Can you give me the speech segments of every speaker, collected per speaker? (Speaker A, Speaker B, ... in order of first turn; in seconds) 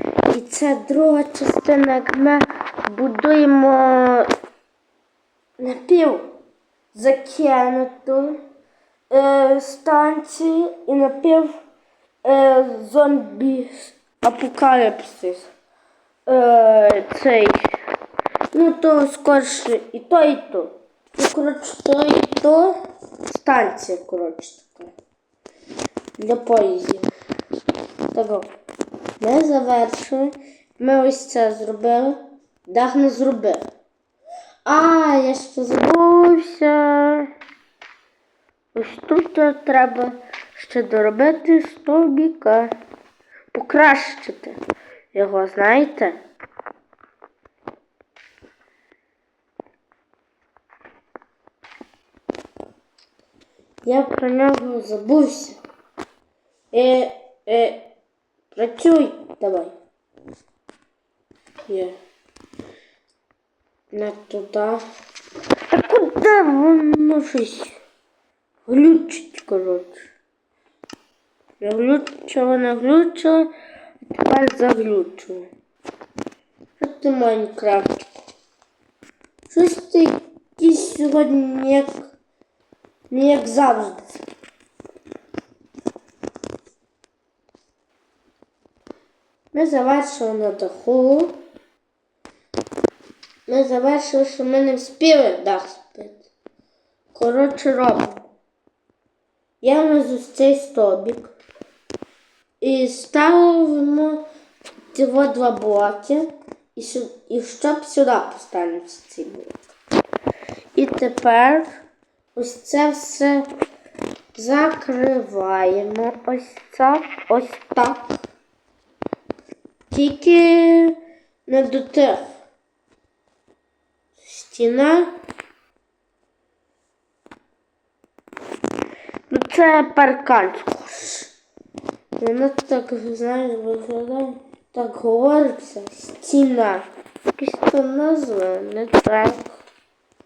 Speaker A: 0.3-4.3, 5.6-6.3, 6.9-8.4, 9.1-11.6, 12.2-15.5, 16.3-17.7, 18.5-24.9, 26.2-27.1, 28.1-28.5, 29.2-33.6, 34.6-37.3, 38.7-42.7, 43.5-44.6, 45.1-46.2, 53.9-55.6, 56.7-57.9, 58.5-59.7, 61.7-61.9, 63.9-64.8, 65.7-67.8, 68.7-70.0, 71.6-73.5, 74.2-75.5, 76.8-78.1, 79.5-82.1, 83.1-84.1, 89.5-91.4, 93.5-96.3, 97.1-98.3, 99.6-101.3, 102.6-104.2, 104.9-109.5, 110.8-111.7, 112.3-113.5, 114.3-118.2, 119.9-121.0, 121.5-122.2, 124.2-125.1, 129.3-131.3, 132.2-139.6